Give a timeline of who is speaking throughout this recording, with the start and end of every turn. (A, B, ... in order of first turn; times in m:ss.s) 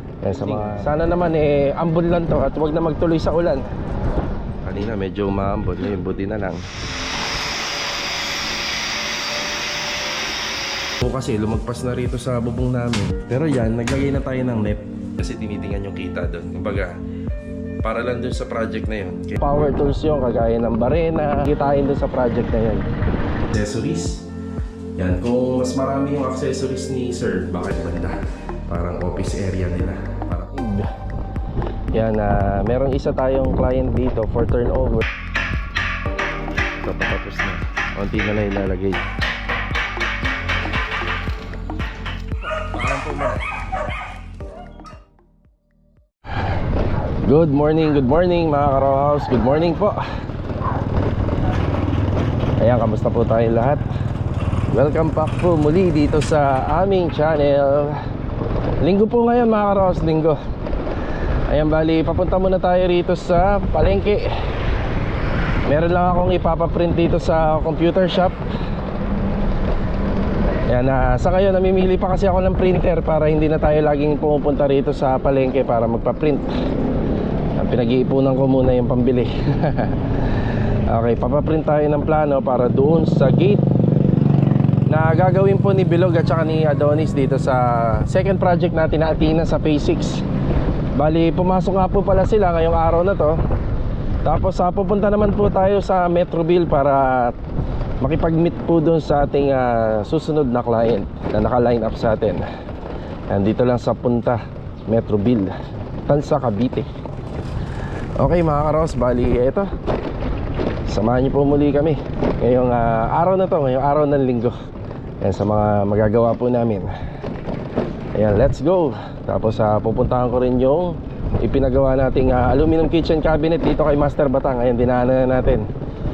0:00.2-0:03.6 A
0:04.6-0:06.6 A
0:11.0-0:17.0 A
0:17.8-0:22.9 A
0:23.5-0:24.3 A
0:25.0-0:28.2 A
0:28.7-0:30.9 A
0:31.9-0:35.1 A
0:36.8-0:39.0 A
0:42.7-0:43.4 A
0:47.2-0:50.0 A
0:52.6-0:53.8 A
0:54.7-0:58.0 A
0:58.8-1:00.4 A
1:01.5-1:04.3 A
1:05.7-1:08.4 A
1:10.7-1:16.5 A
1:17.6-1:23.6 A
1:24.9-1:30.2 A
1:31.0-1:33.4 A
1:34.2-1:37.4 A
1:38.0-1:42.5 A
1:43.3-1:45.5 A
1:46.1-1:46.9 A
1:48.2-1:49.7 A
1:50.9-1:54.6 A
1:55.2-1:56.9 A
1:58.2-2:05.7 A